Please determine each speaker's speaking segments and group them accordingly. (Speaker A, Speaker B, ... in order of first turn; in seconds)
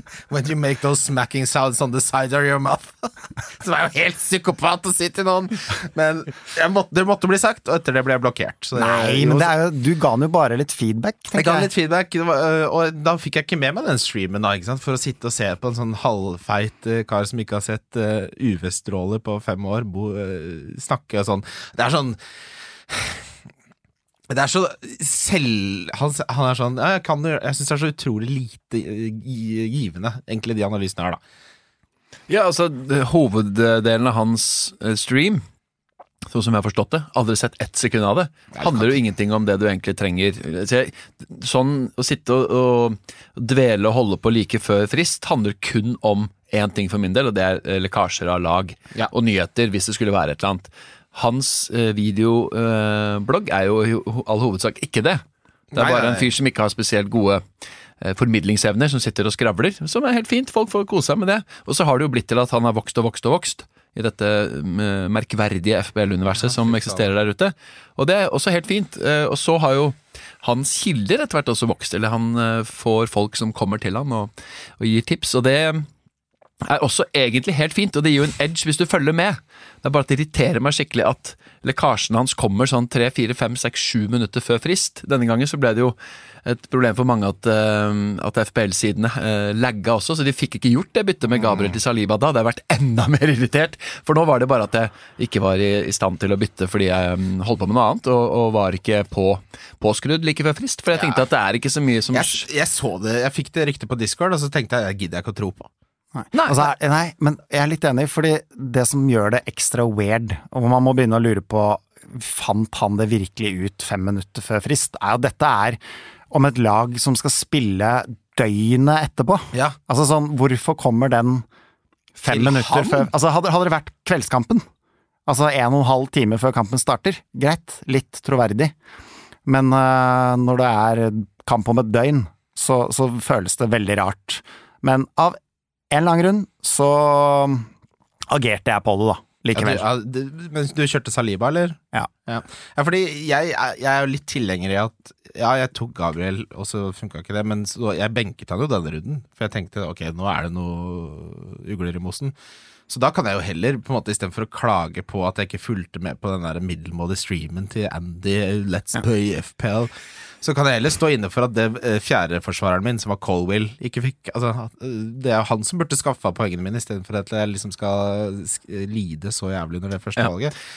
Speaker A: 0.3-9.5, 11.3-22.2, 22.9-23.2, 24.3-31.2, 38.6-38.9, 55.8-56.3, 66.4-67.0, 91.4-91.8, 102.1-105.7, 122.3-123.1, 139.5-152.3, 152.9-170.6
Speaker B: 8.8-11.7, 106.2-121.5, 122.2-124.7, 125.3-128.7, 129.5-135.4, 135.9-137.7, 138.3-139.8
Speaker C: 32.3-35.4, 36.3-57.4, 58.0-75.9, 76.6-102.5